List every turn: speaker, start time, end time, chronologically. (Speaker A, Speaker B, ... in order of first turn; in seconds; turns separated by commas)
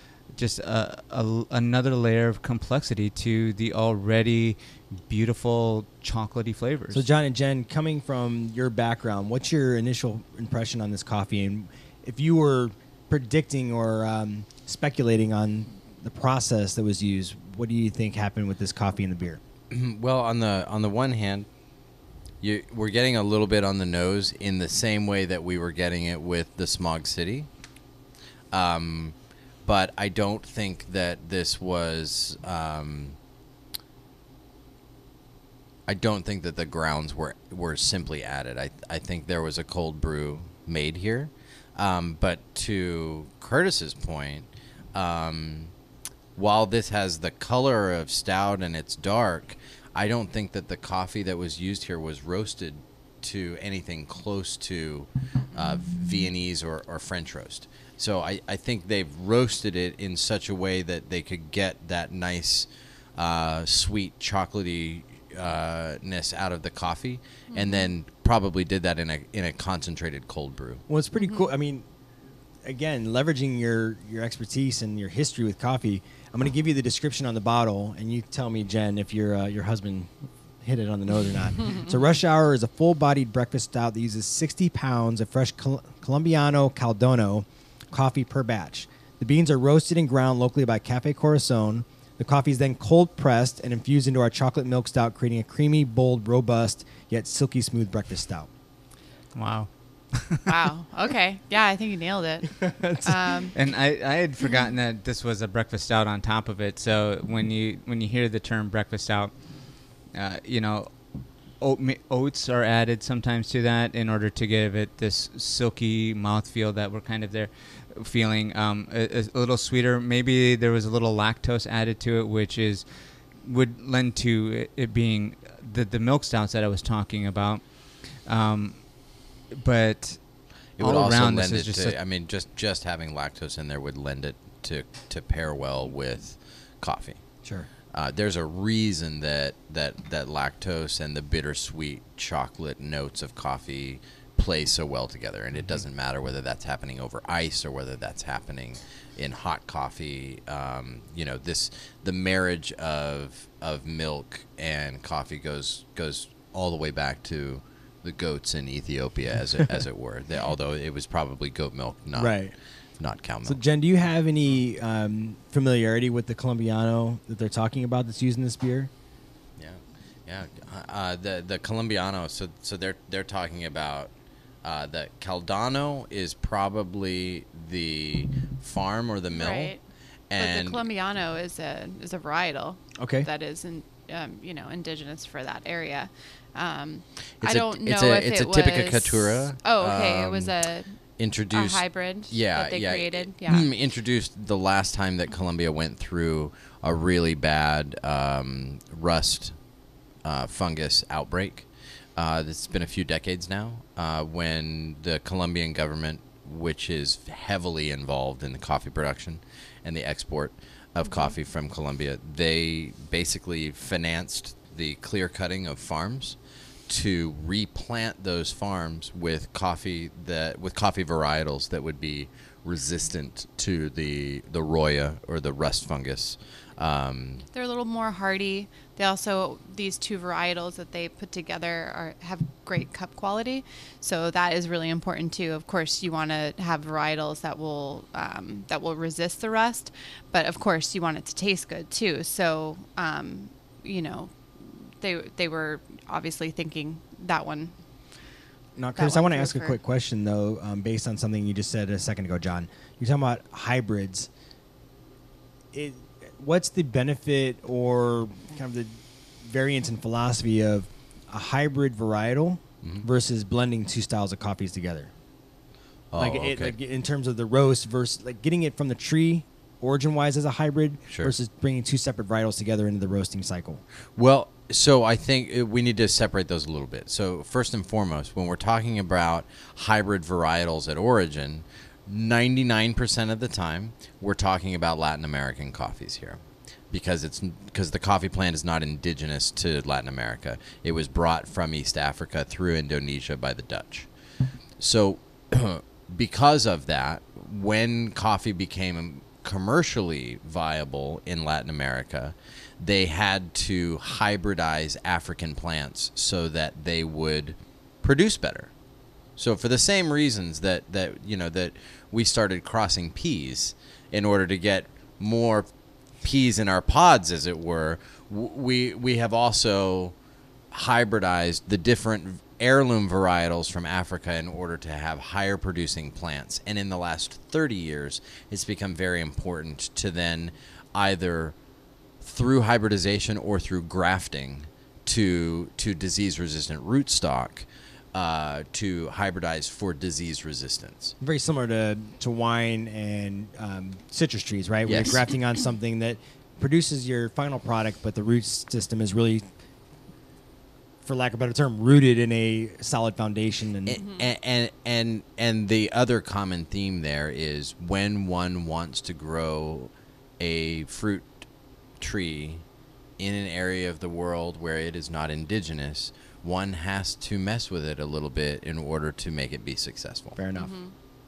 Speaker A: 0.3-7.1, Speaker B: 6.9-19.4, Speaker C: 19.7-21.5, Speaker C: 22.4-27.5, Speaker C: 28.5-29.1, Speaker C: 29.6-33.2, Speaker C: 35.9-45.7, Speaker C: 46.4-70.8, Speaker D: 67.5-67.9, Speaker B: 70.9-71.8, Speaker D: 71.2-71.5, Speaker B: 72.6-98.5, Speaker A: 99.3-100.5, Speaker D: 100.5-103.5, Speaker B: 102.5-103.4, Speaker A: 103.5-109.3, Speaker A: 110.1-110.9, Speaker A: 111.6-122.8, Speaker A: 123.4-129.0, Speaker A: 129.5-130.2, Speaker C: 130.8-137.2, Speaker A: 130.8-132.0, Speaker C: 137.9-162.4, Speaker B: 162.2-162.5, Speaker C: 163.0-163.6, Speaker B: 163.4-168.9, Speaker C: 169.6-174.1, Speaker C: 174.6-179.7, Speaker D: 179.3-179.8, Speaker C: 180.3-180.8, Speaker D: 180.4-191.0, Speaker B: 183.0-183.3, Speaker C: 187.4-190.5, Speaker C: 191.2-199.5, Speaker D: 191.5-193.7, Speaker C: 200.2-216.4, Speaker D: 211.0-211.3, Speaker C: 216.9-227.4, Speaker D: 227.5-247.7, Speaker B: 248.8-254.3, Speaker D: 248.9-249.8, Speaker B: 255.7-265.1, Speaker C: 266.1-266.7, Speaker B: 266.1-273.8, Speaker C: 271.1-271.3, Speaker C: 274.1-294.1, Speaker C: 294.8-308.7, Speaker C: 309.4-315.7, Speaker C: 316.2-320.1, Speaker C: 320.7-331.5, Speaker C: 332.2-341.1, Speaker B: 341.2-349.4, Speaker C: 344.8-345.3, Speaker B: 351.0-354.0, Speaker C: 353.9-361.4, Speaker D: 354.0-354.2, Speaker C: 362.0-362.6, Speaker C: 363.2-370.4, Speaker B: 370.4-370.7, Speaker D: 370.5-370.9